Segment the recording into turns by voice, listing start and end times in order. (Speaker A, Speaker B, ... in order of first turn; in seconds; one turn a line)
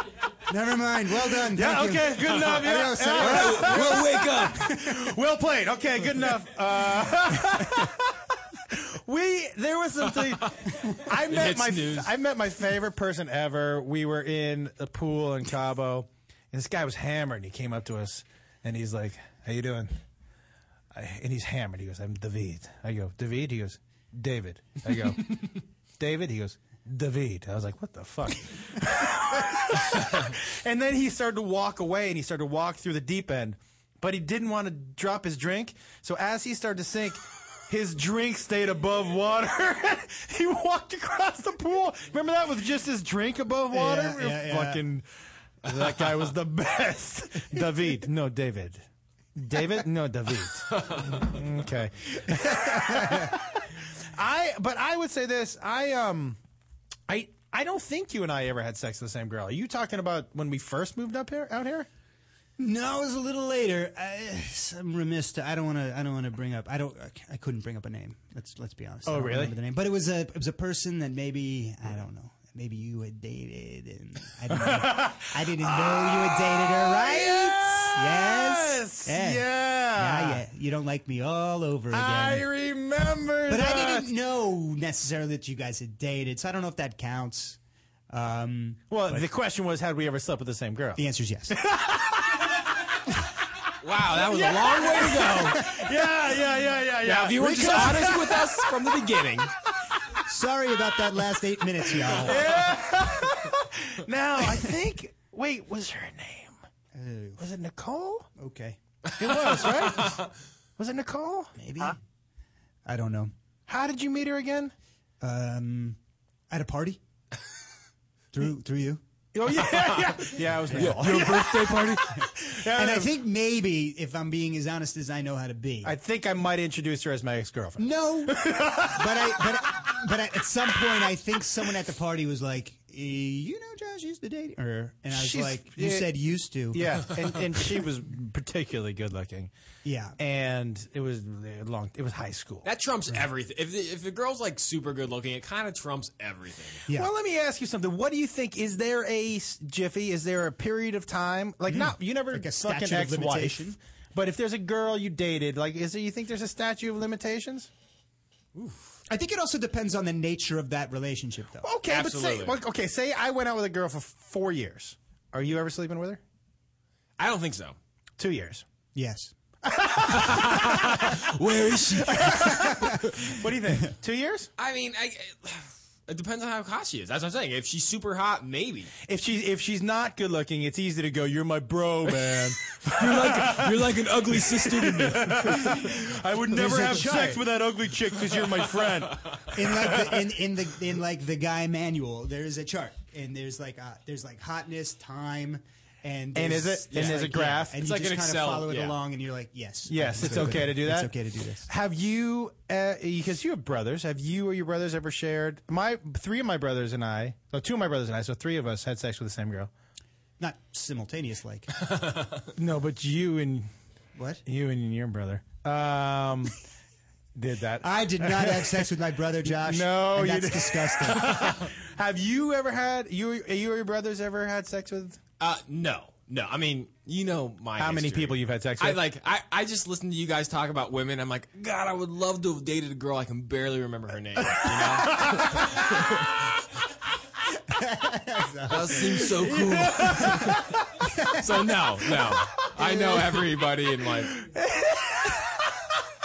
Speaker A: 0.5-5.0
Speaker B: 1.5-20.0
Speaker C: 3.2-4.7
Speaker C: 10.2-12.1
Speaker B: 20.9-25.4
Speaker B: 26.0-45.1
Speaker A: 43.7-44.8
Speaker B: 45.6-48.9
Speaker C: 45.8-46.2
Speaker B: 49.4-56.4
Speaker C: 50.7-51.2
Speaker A: 52.3-53.4
Speaker B: 57.1-61.9
Speaker A: 62.6-82.5
Speaker B: 69.1-69.5
Speaker B: 74.5-80.4
Speaker B: 81.9-84.1
Speaker A: 83.5-87.6
Speaker A: 88.1-89.3
Speaker B: 88.9-92.7
Speaker A: 91.0-91.6
Speaker C: 93.8-95.7
Speaker B: 94.1-98.5
Speaker A: 95.6-95.9
Speaker C: 97.0-99.5
Speaker A: 97.4-98.2
Speaker A: 100.2-102.4
Speaker B: 102.2-106.6
Speaker A: 106.9-107.4
Speaker B: 107.4-108.3
Speaker A: 108.4-108.8
Speaker B: 109.2-110.2
Speaker C: 109.2-110.3
Speaker B: 110.8-111.5
Speaker A: 111.6-112.0
Speaker A: 112.9-113.3
Speaker B: 113.7-114.7
Speaker A: 115.2-116.0
Speaker A: 116.5-117.0
Speaker A: 118.3-119.0
Speaker B: 119.3-123.2
Speaker C: 119.7-122.0
Speaker A: 120.7-125.9
Speaker B: 125.8-129.5
Speaker A: 127.8-137.1
Speaker B: 135.1-136.1
Speaker B: 136.7-139.5
Speaker A: 139.8-140.2
Speaker B: 140.2-142.7
Speaker C: 142.7-146.8
Speaker B: 146.9-157.7
Speaker A: 151.7-153.8
Speaker A: 159.1-161.7
Speaker B: 161.6-166.2
Speaker C: 161.9-162.6
Speaker C: 167.2-167.8
Speaker B: 168.2-168.7
Speaker A: 168.9-169.3
Speaker B: 169.7-171.1
Speaker C: 170.2-172.5
Speaker B: 172.0-174.5
Speaker A: 172.3-173.1
Speaker C: 174.6-178.9
Speaker B: 179.1-190.2
Speaker C: 182.8-185.9
Speaker A: 186.5-187.4
Speaker C: 188.5-189.4
Speaker A: 189.5-201.7
Speaker B: 196.3-197.8
Speaker C: 196.9-199.0
Speaker B: 199.9-201.1
Speaker B: 201.7-209.7
Speaker A: 210.4-211.7
Speaker C: 211.9-212.4
Speaker B: 212.6-213.7
Speaker A: 214.2-214.4
Speaker B: 214.4-216.5
Speaker B: 217.3-218.9
Speaker A: 217.8-221.3
Speaker B: 219.5-225.2
Speaker C: 225.4-236.4
Speaker B: 227.8-229.0
Speaker B: 234.4-235.9
Speaker A: 237.7-239.3
Speaker C: 238.7-240.6
Speaker B: 239.4-240.8
Speaker A: 241.0-241.4
Speaker C: 241.4-244.4
Speaker B: 242.3-243.5
Speaker B: 244.3-245.6